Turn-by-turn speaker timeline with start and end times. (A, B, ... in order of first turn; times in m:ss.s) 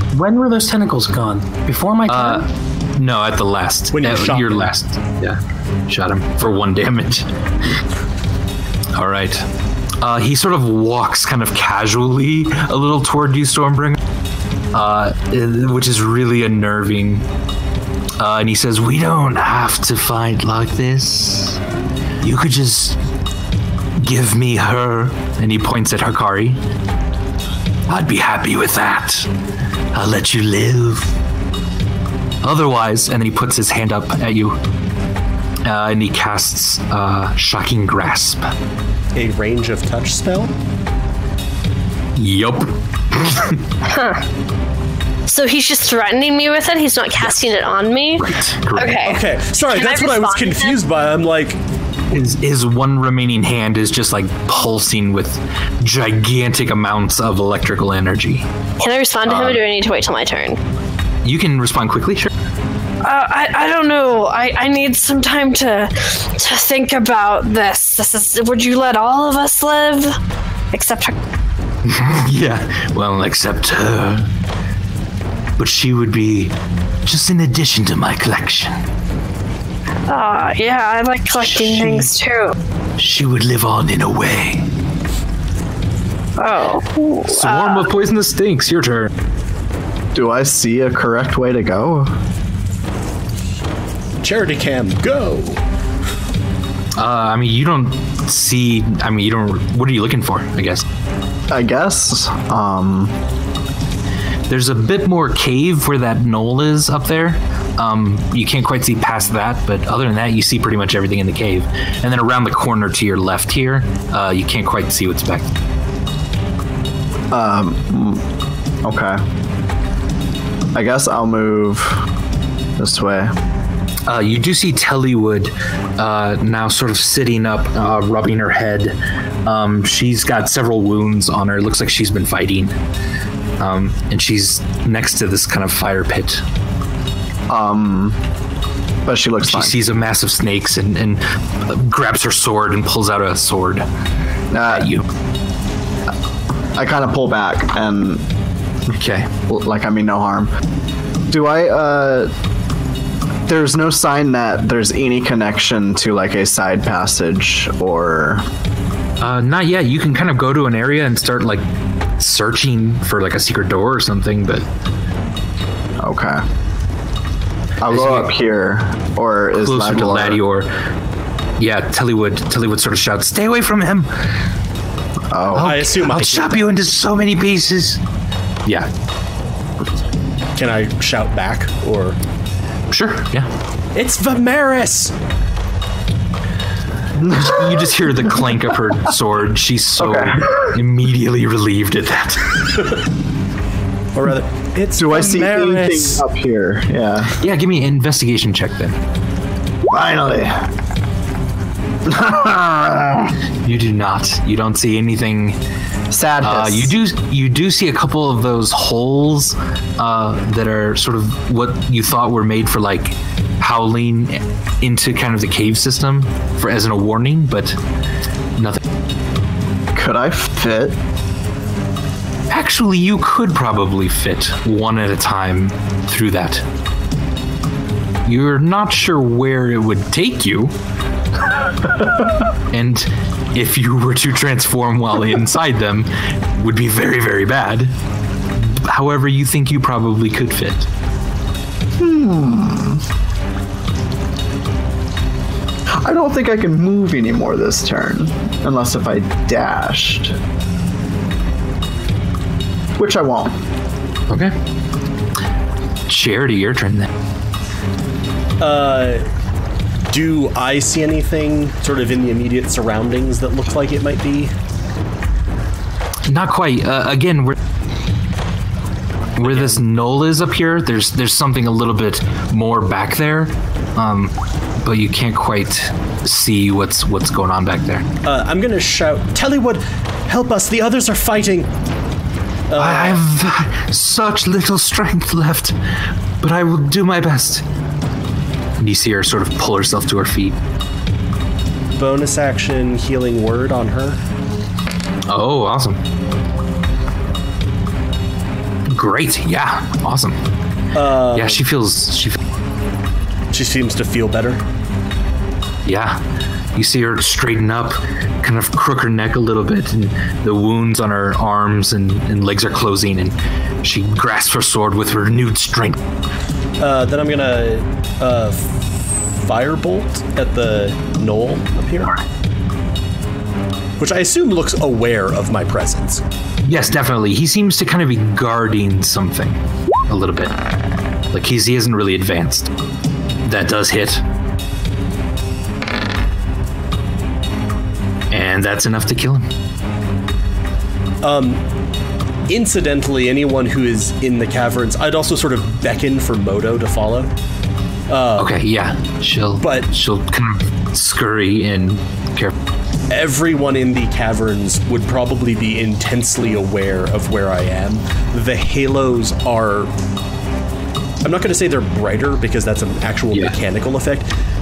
0:00.1-0:02.5 A
0:02.1-0:07.8 B
0:03.9-0:04.7 C
0:08.9-0:09.5 B
0:10.0-0:14.0 B
0:14.7-0:17.2 B
0:18.2-0:21.6 B
0:22.2-0:23.0 B
0:24.0-0:26.6 B
0:27.9-0:29.3 B
0:29.9-0:31.1 B
0:32.4-0:34.6 B
0:35.6-0:38.5 B
0:39.1-0:40.5 C
0:42.2-0:43.6 B
0:43.8-0:44.2 D
0:45.2-0:50.8 D
0:47.2-0:47.5 B
0:48.2-0:49.1 B
0:49.0-0:51.6 C
0:52.1-0:58.4 B
0:58.8-1:00.6 D
0:59.2-0:59.6 B
1:01.2-1:02.3 B
1:03.0-1:10.2 D
1:10.7-1:11.1 D
1:11.8-1:14.3 B
1:15.6-1:16.5 B
1:17.0-1:18.7 B
1:20.1-1:22.6 D
1:21.4-1:22.1 B
1:23.0-1:24.7 B
1:26.4-1:27.9 D
1:27.2-1:29.1 B
1:30.1-1:32.1 E
1:34.2-1:35.6 C
1:37.0-1:40.8 B
1:41.5-1:43.1 E
1:44.5-1:55.5 B
1:57.3-1:58.2 E
1:58.8-1:59.2 E
2:00.7-2:02.0 E
2:02.8-2:03.3 E
2:04.1-2:12.7 B
2:13.6-2:16.4 B
2:17.5-2:18.2 E
2:19.0-2:19.7 E
2:19.4-2:23.8 B
2:24.5-2:24.9 E
2:24.7-2:25.0 B
2:26.7-2:28.3 E
2:28.9-2:29.3 B
2:29.5-2:30.5 E
2:31.3-2:32.3 E
2:33.4-2:38.4 E
2:39.2-2:44.7 B
2:46.0-2:46.4 E
2:47.8-2:50.4 E
2:47.9-2:48.3 B
2:49.6-2:50.7 B
2:51.6-2:54.2 B
2:55.3-2:55.7 E
2:55.5-2:58.0 B
2:55.6-2:56.7 C
2:58.6-2:58.9 B
3:00.6-3:02.2 C
3:02.9-3:03.5 B
3:03.9-3:05.1 C
3:07.2-3:12.9 B
3:07.3-3:07.9 E
3:10.0-3:10.7 E
3:14.1-3:16.2 C
3:15.0-3:17.4 E
3:17.4-3:19.0 B
3:19.9-3:20.7 E
3:22.0-3:23.3 E
3:23.6-3:25.6 B
3:26.1-3:26.9 E
3:26.4-3:37.8 B
3:39.9-3:41.0 E
3:42.5-3:46.6 B
3:48.2-3:50.7 B
3:52.7-3:57.9 B
3:58.5-4:00.9 B
4:02.0-4:03.0 E
4:05.9-4:10.4 E
4:13.0-4:13.6 E
4:14.3-4:14.5 B
4:16.1-4:17.1 B
4:18.6-4:19.2 C
4:20.1-4:24.5 C
4:26.3-4:27.5 B
4:29.4-4:38.0 B
4:29.4-4:29.8 C
4:38.2-4:41.7 C
4:42.7-4:43.2 C
4:42.8-4:45.8 B
4:46.4-4:47.6 B
4:48.8-4:50.6 B
4:52.0-4:54.2 C
4:55.3-4:56.0 B
4:58.9-5:00.4 B
5:00.9-5:01.6 C
5:01.3-5:02.4 B
5:03.5-5:04.6 C
5:05.8-5:06.2 B
5:06.7-5:16.0 B
5:16.8-5:22.2 C
5:24.0-5:26.2 C
5:26.6-5:30.5 B
5:31.3-5:32.7 B
5:33.4-5:34.2 B
5:38.3-5:39.5 B
5:41.2-5:41.6 C
5:42.5-5:47.3 C
5:48.1-5:48.5 C
5:48.4-5:52.5 B
5:49.6-5:49.9 C
5:53.1-5:59.9 C
6:01.2-6:04.3 C